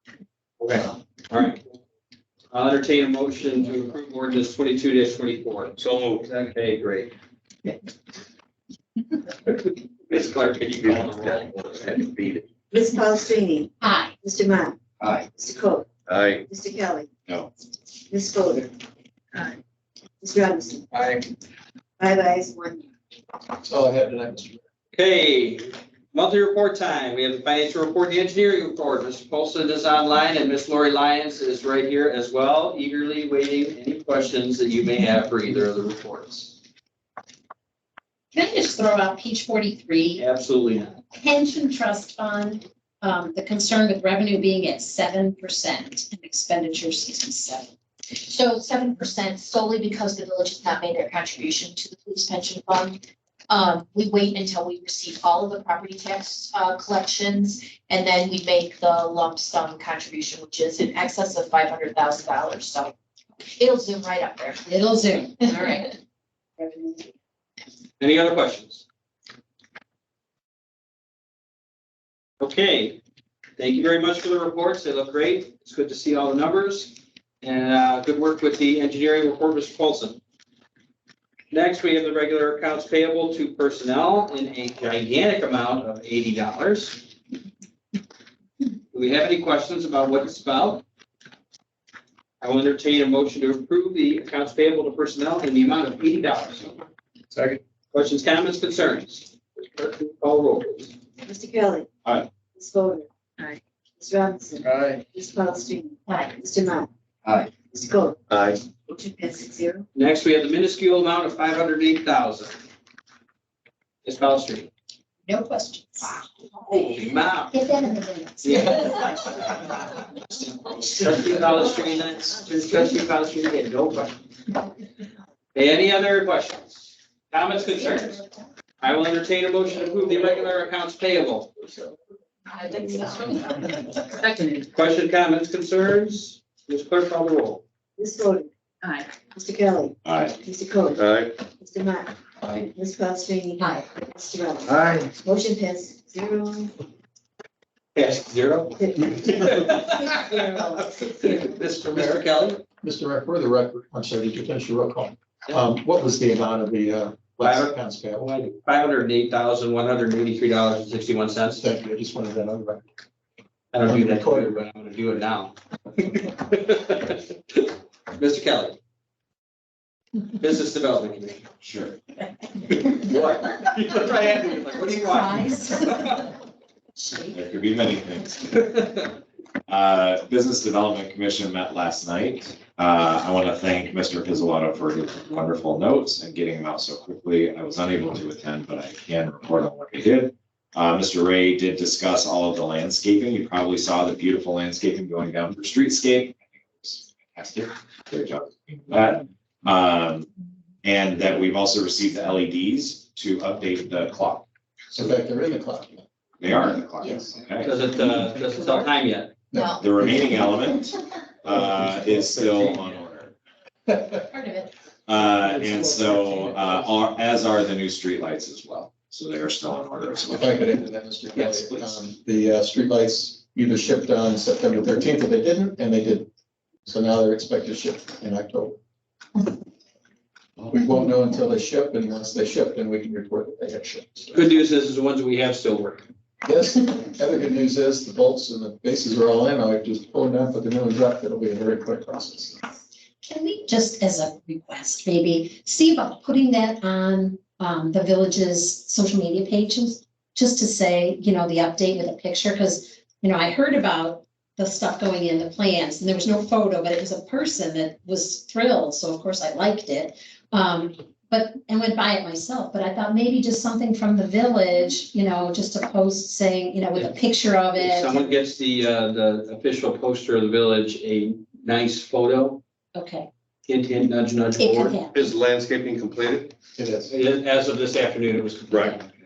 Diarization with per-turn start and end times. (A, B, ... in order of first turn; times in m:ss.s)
0:00.6-0:01.6 A
0:02.5-0:05.7 A
0:05.8-0:06.3 B
0:06.3-0:07.1 A
0:10.1-0:11.4 A
0:10.8-0:12.4 B
0:12.7-0:15.9 C
0:13.8-0:14.1 D
0:16.1-0:16.4 B
0:16.5-0:17.1 C
0:18.1-0:18.7 C
0:20.2-0:20.9 C
0:22.0-0:22.8 C
0:23.6-0:24.6 E
0:24.9-0:36.5 A
0:38.3-0:40.2 D
0:40.2-0:40.9 A
0:41.1-0:47.7 D
0:48.1-1:02.9 F
1:03.4-1:04.7 F
1:04.7-1:05.9 D
1:05.4-1:05.9 F
1:08.0-1:08.8 A
1:12.4-1:13.0 A
1:13.6-1:20.2 A
1:21.5-1:27.0 A
1:28.9-1:30.8 A
1:32.4-1:36.8 A
1:37.9-1:40.9 A
1:41.2-1:41.9 C
1:42.5-1:46.9 C
1:44.7-1:45.0 B
1:46.1-1:46.3 D
1:47.4-1:48.2 C
1:48.3-1:48.6 B
1:48.8-1:49.8 C
1:49.9-1:52.6 A
1:54.0-1:54.7 A
1:55.3-1:59.8 D
1:56.7-1:57.5 A
1:58.4-1:59.2 A
2:00.8-2:04.1 A
2:05.5-2:08.2 A
2:08.0-2:08.4 D
2:08.8-2:11.5 A
2:14.7-2:17.6 A
2:18.0-2:18.5 C
2:19.2-2:26.7 C
2:20.0-2:20.4 G
2:20.9-2:21.3 B
2:23.6-2:23.9 D
2:24.7-2:25.1 B
2:27.9-2:32.6 A
2:28.8-2:30.9 C
2:31.9-2:32.2 E
2:32.8-2:38.3 E
2:37.4-2:41.6 A
2:41.6-2:42.9 E
2:43.7-2:48.8 A
2:43.8-2:44.6 E
2:50.3-2:51.5 A
2:51.6-2:52.0 G
2:52.7-2:56.3 A
2:54.9-2:55.9 D
2:57.0-2:57.4 D
2:57.3-2:58.6 G
2:58.4-2:59.0 A
2:59.7-3:20.3 G
3:20.8-3:24.4 G
3:24.9-3:26.0 E
3:26.4-3:27.7 G
3:27.0-3:27.3 E
3:27.6-3:29.3 A
3:28.1-3:28.9 E
3:29.5-3:30.4 E
3:29.5-3:29.9 F
3:29.8-3:33.3 G
3:31.4-3:32.9 E
3:33.9-3:34.2 E
3:34.3-3:34.7 D
3:35.1-3:40.8 G
3:35.2-3:37.0 E
3:40.3-3:46.3 E
3:41.3-3:41.9 G
3:46.9-3:48.8 E
3:50.7-3:54.5 E
3:54.3-3:56.0 A
3:56.4-4:02.6 E
4:03.2-4:28.3 D
4:27.7-4:32.6 A
4:32.9-4:33.3 D
4:33.7-4:35.0 A
4:34.6-4:35.3 D
4:35.1-4:36.5 B
4:36.8-4:37.1 E
4:37.1-4:39.0 A
4:38.7-4:39.0 B